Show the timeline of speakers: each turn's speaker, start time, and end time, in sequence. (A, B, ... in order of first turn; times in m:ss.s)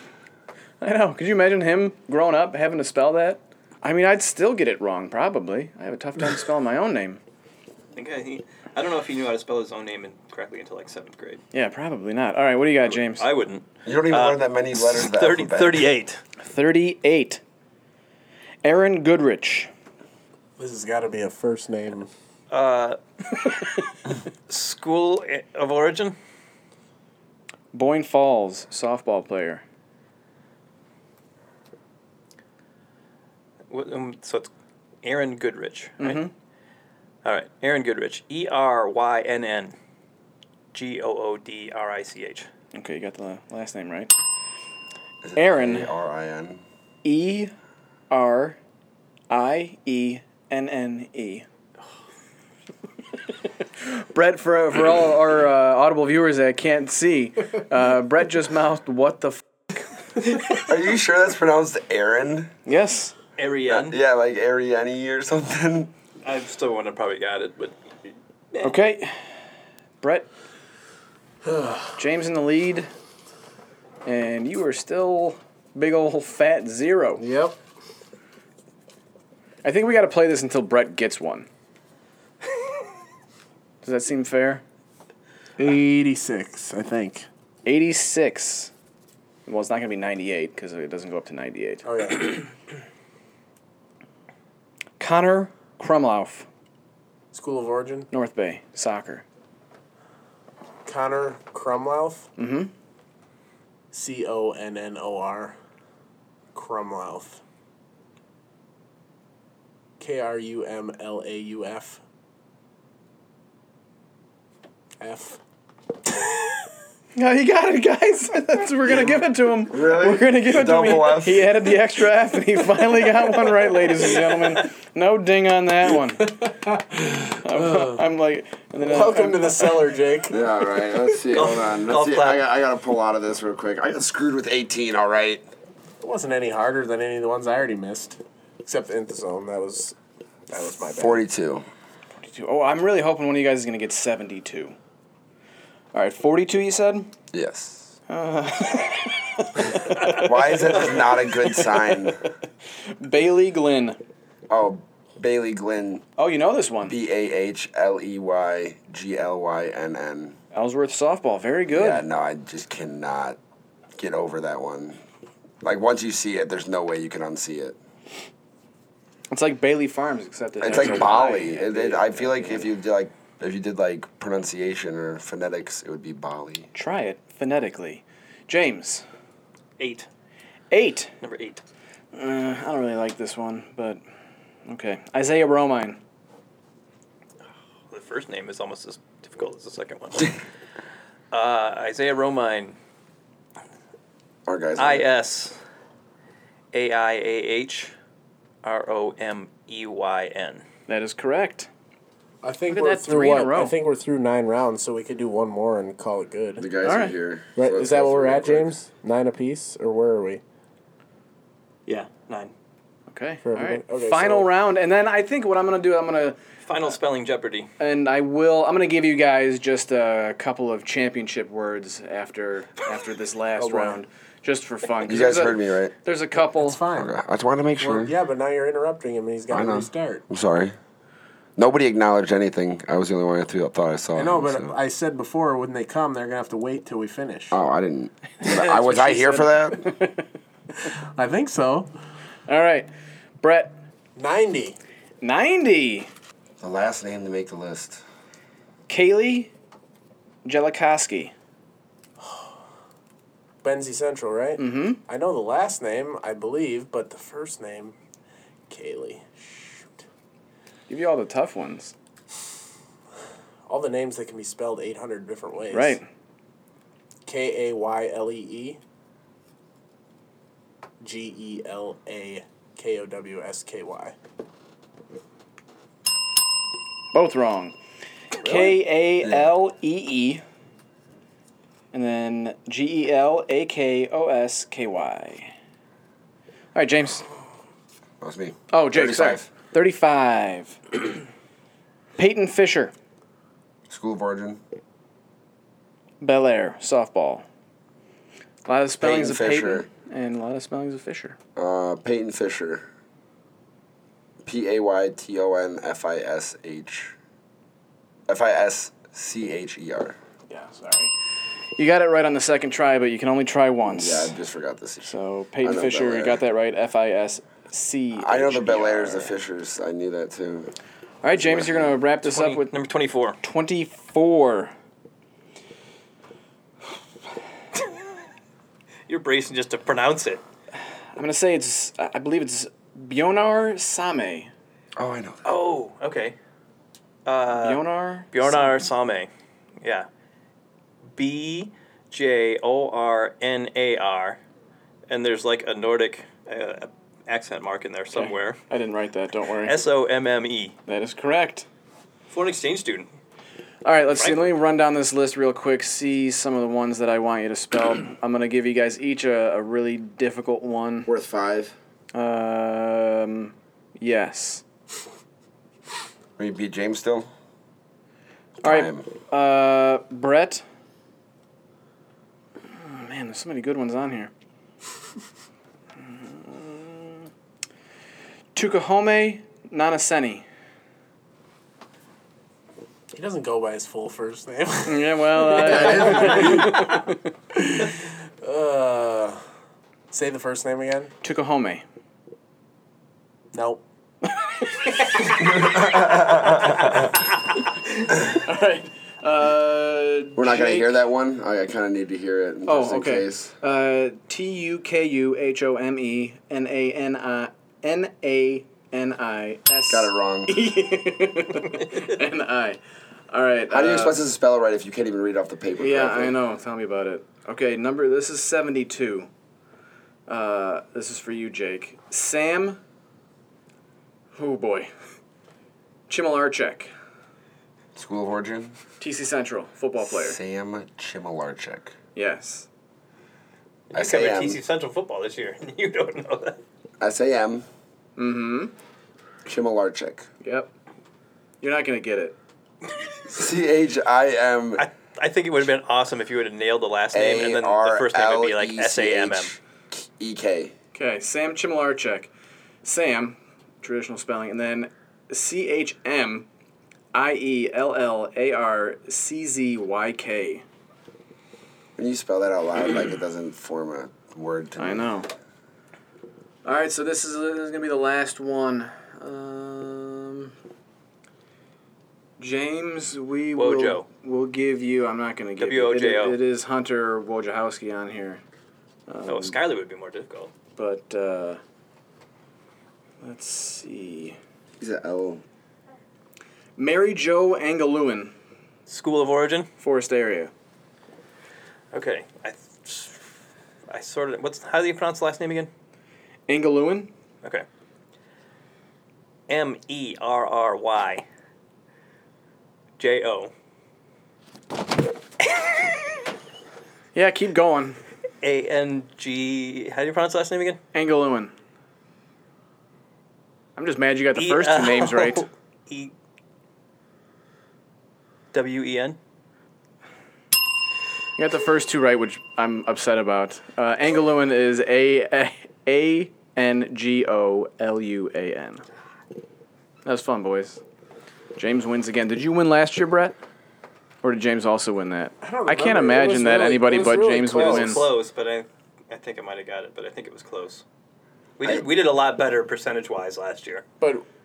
0:00.8-0:07.2 A
0:07.9-0:11.4 B
0:11.5-0:13.2 A
0:13.0-0:16.2 B
0:13.8-0:15.9 C
0:16.4-0:17.4 A
0:18.6-0:19.7 A
0:20.6-0:22.1 D
0:22.5-0:23.0 B
0:24.5-0:26.2 B
0:27.7-0:29.6 A
0:33.7-0:34.5 B
0:35.0-0:36.2 B
0:36.0-0:36.3 A
0:37.2-0:39.7 B
0:40.7-0:42.5 B
0:42.7-0:44.1 A
0:45.2-0:46.6 C
0:45.4-0:45.9 A
0:47.0-0:47.5 A
0:48.1-0:48.6 A
0:49.3-0:51.4 A
0:53.8-0:59.8 A
1:00.5-1:02.5 C
1:02.6-1:03.1 A
1:03.4-1:04.0 B
1:03.7-1:05.9 C
1:06.2-1:07.7 B
1:08.6-1:09.3 A
1:10.0-1:10.3 A
1:11.4-1:11.9 D
1:12.0-1:12.9 A
1:14.0-1:17.2 A
1:17.2-1:17.6 D
1:19.6-1:21.5 A
1:23.8-1:24.6 A
1:25.6-1:27.3 D
1:27.6-1:28.7 A
1:29.4-1:31.8 A
1:31.8-1:32.4 D
1:35.0-1:36.5 A
1:37.3-1:38.1 D
1:38.1-1:39.2 A
1:40.8-1:42.3 D
1:42.4-1:42.7 A
1:43.9-1:45.6 D
1:46.5-1:47.4 D
1:50.0-1:52.0 D
1:55.0-1:55.4 D
1:57.2-2:06.5 A
1:58.9-2:01.6 C
2:06.4-2:08.0 D
2:07.4-2:09.8 A
2:08.9-2:10.5 D
2:10.3-2:15.5 C
2:11.3-2:12.4 B
2:16.0-2:20.0 D
2:20.5-2:21.2 D
2:20.9-2:21.6 C
2:22.2-2:24.7 A
2:25.9-2:27.1 A
2:27.3-2:27.9 C
2:28.1-2:30.3 A
2:30.1-2:32.2 C
2:31.5-2:32.0 A
2:33.0-2:34.0 A
2:34.5-2:36.0 C
2:36.2-2:37.0 A
2:36.8-2:40.4 C
2:40.5-2:42.0 A
2:41.7-2:43.4 C
2:44.0-2:45.0 C
2:45.6-2:47.8 C
2:49.3-2:52.7 A
2:50.6-2:56.7 C
2:56.7-2:59.0 A
2:59.8-3:00.1 B
3:00.7-3:01.1 A
3:01.2-3:01.6 B
3:02.1-3:04.0 A
3:04.6-3:06.0 A
3:07.9-3:10.4 B
3:11.3-3:12.8 B
3:14.4-3:15.1 C
3:14.8-3:15.6 B
3:16.7-3:17.9 B
3:18.6-3:20.6 B
3:20.9-3:21.7 A
3:22.4-3:26.7 D
3:22.7-3:23.7 A
3:26.6-3:28.8 C
3:26.8-3:27.1 A
3:27.6-3:30.4 D
3:31.8-3:32.5 B
3:33.1-3:36.4 A
3:33.4-3:34.5 D
3:36.6-3:37.7 B
3:37.8-3:46.8 A
3:43.6-3:44.0 D
3:45.0-3:45.9 C
3:46.4-3:47.1 D
3:46.9-3:48.1 C
3:47.8-3:50.2 D
3:49.5-3:50.7 C
3:51.6-3:54.8 C
3:54.1-3:57.6 D
3:57.5-3:59.9 C
3:58.4-4:00.2 A
4:01.2-4:01.9 D
4:02.5-4:02.9 A
4:03.4-4:03.7 A
4:04.2-4:04.8 D
4:05.2-4:06.1 A
4:06.6-4:08.0 C
4:08.9-4:09.5 A
4:10.4-4:11.3 A
4:12.2-4:12.5 D
4:13.6-4:17.9 D
4:14.6-4:15.0 A
4:18.7-4:20.0 D
4:20.9-4:21.9 A
4:23.7-4:26.0 D
4:25.7-4:26.0 A
4:27.2-4:28.8 D
4:31.0-4:34.2 D
4:37.1-4:37.8 A
4:38.4-4:40.4 A
4:39.2-4:39.5 C
4:41.9-4:45.5 A
4:46.7-4:47.3 A
4:48.2-4:49.5 C
4:48.7-4:50.8 A
4:52.2-4:52.9 A
4:53.9-4:54.6 C
4:56.2-4:57.4 A
4:58.6-5:01.4 A
4:59.0-4:59.9 C
5:01.6-5:02.8 C
5:04.4-5:07.1 C
5:08.3-5:10.2 C
5:10.5-5:11.1 A
5:11.8-5:14.3 A
5:13.9-5:16.4 C
5:15.0-5:19.3 A
5:18.2-5:20.7 C
5:21.2-5:22.7 A
5:21.3-5:22.0 C
5:22.2-5:23.4 B
5:23.4-5:24.7 A
5:29.1-5:30.4 B
5:31.1-5:34.5 A
5:35.0-5:35.4 C
5:35.4-5:36.4 B
5:37.2-5:37.8 B
5:37.6-5:38.9 A
5:38.3-5:39.3 B
5:39.8-5:40.1 B
5:41.2-5:44.4 B
5:45.1-5:48.6 B
5:48.1-5:49.8 A
5:49.6-5:50.7 B
5:50.9-5:51.7 A
5:52.3-5:53.1 B
5:53.8-6:01.1 A
5:54.2-5:54.4 B
6:01.0-6:01.7 C
6:02.1-6:04.6 A
6:06.4-6:07.3 C
6:08.6-6:09.1 C
6:08.6-6:10.6 A
6:12.7-6:14.3 A
6:16.0-6:17.3 A
6:18.5-6:20.4 A
6:23.1-6:29.4 D
6:24.8-6:27.2 A
6:30.1-6:31.1 D
6:31.2-6:31.8 A
6:33.5-6:33.8 D
6:34.2-6:36.8 A
6:35.4-6:36.9 C
6:38.2-6:40.9 A
6:40.4-6:43.5 C
6:42.6-6:52.8 A
6:49.9-6:50.6 C
6:53.3-6:54.2 A
6:53.7-6:56.4 C
6:55.8-6:59.3 A
7:00.3-7:02.8 A
7:04.3-7:04.9 A
7:06.1-7:06.9 A
7:07.9-7:08.8 C
7:09.0-7:10.4 A
7:10.0-7:11.9 C
7:12.1-7:12.7 A
7:13.9-7:16.6 B
7:13.9-7:14.6 C
7:17.0-7:17.6 C
7:18.2-7:18.7 A
7:19.4-7:20.3 C
7:20.4-7:20.7 A
7:21.6-7:22.4 A
7:23.3-7:24.8 C
7:24.8-7:29.5 B
7:27.1-7:30.7 C
7:30.9-7:32.3 A
7:32.8-7:36.5 A
7:37.1-7:40.6 A
7:42.0-7:45.1 C
7:44.8-7:45.3 A
7:46.6-7:50.5 A
7:52.4-7:58.4 A
7:53.6-7:54.1 B
7:55.6-7:56.4 B
7:59.1-7:59.6 A
7:59.2-8:00.5 B
8:00.8-8:01.6 A
8:03.2-8:04.4 A
8:04.8-8:05.4 C
8:06.8-8:08.3 A
8:08.9-8:09.7 B
8:09.8-8:10.5 A
8:11.9-8:13.3 B
8:13.9-8:15.7 B
8:16.5-8:17.1 A
8:19.5-8:21.2 B
8:23.0-8:23.5 B
8:27.1-8:28.0 A
8:28.4-8:30.8 B
8:30.9-8:31.5 A
8:33.8-8:35.4 A
8:34.4-8:36.1 B
8:38.5-8:39.2 B
8:41.4-8:48.8 A
8:50.0-8:50.8 A
8:51.6-8:53.4 A
8:54.2-8:58.0 A
8:55.4-8:58.0 D
8:57.5-9:00.8 B
9:01.6-9:03.8 B